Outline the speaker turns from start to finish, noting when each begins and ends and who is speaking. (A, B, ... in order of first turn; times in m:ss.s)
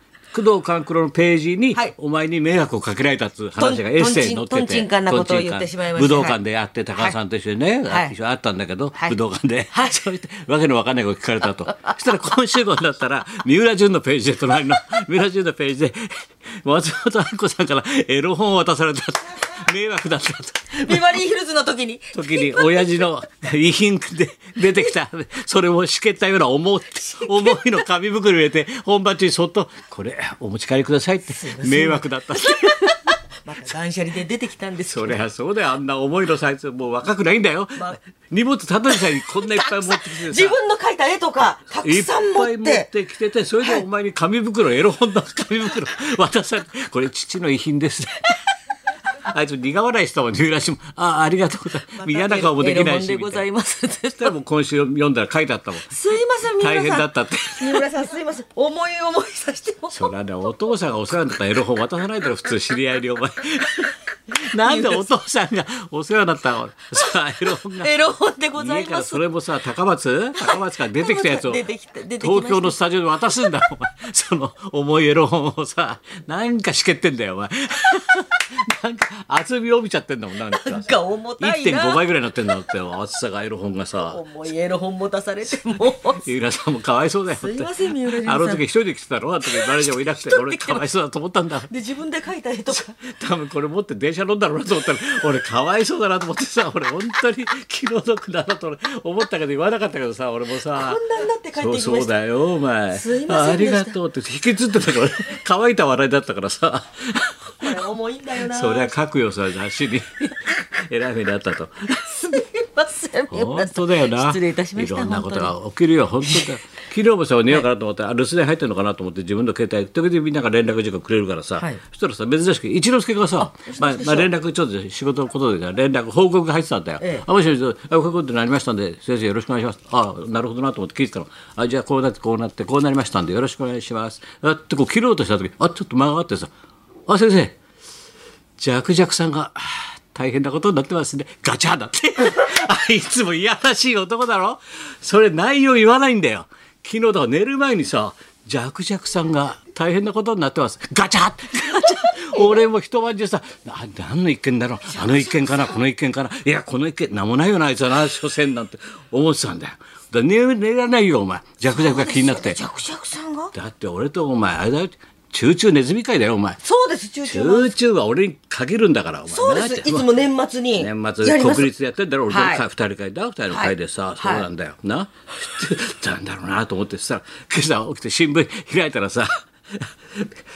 0:00.3-0:21.1 A
0:03.6-0:06.4 B
0:07.9-0:08.1 B
0:09.7-0:10.0 B
0:20.8-0:23.0 B
0:22.1-0:33.0 A
0:31.3-0:35.2 B
0:34.8-0:40.6 A
0:38.9-0:42.9 B
0:41.8-0:48.4 A
0:49.2-0:53.4 A
0:52.0-0:54.4 B
0:54.2-0:55.9 A
0:55.9-0:57.1 B
0:56.6-0:57.8 A
0:57.6-1:00.1 B
0:59.9-1:07.9 A
1:04.6-1:05.1 B
1:07.7-1:09.2 B
1:08.6-1:11.6 A
1:10.4-1:12.8 B
1:12.2-1:24.2 A
1:20.5-1:22.0 B
1:24.0-1:26.3 B
1:26.1-1:31.7 A
1:27.4-1:28.6 B
1:29.4-1:30.9 B
1:31.7-1:32.9 B
1:32.7-1:47.8 A
1:40.7-1:42.1 B
1:42.9-1:44.0 B
1:47.6-1:49.0 B
1:48.4-1:52.1 A
1:52.0-1:55.5 B
1:53.3-2:16.5 A
1:56.2-1:56.5 B
2:03.4-2:04.3 B
2:07.0-2:07.3 B
2:17.1-2:17.6 A
2:18.6-2:42.6 A
2:35.0-2:35.8 B
2:41.7-2:43.5 B
2:43.5-2:46.6 A
2:46.6-2:47.7 B
2:47.2-2:50.1 A
2:49.3-2:51.7 B
2:50.8-3:00.4 A
2:52.3-2:52.6 B
2:53.5-2:54.5 B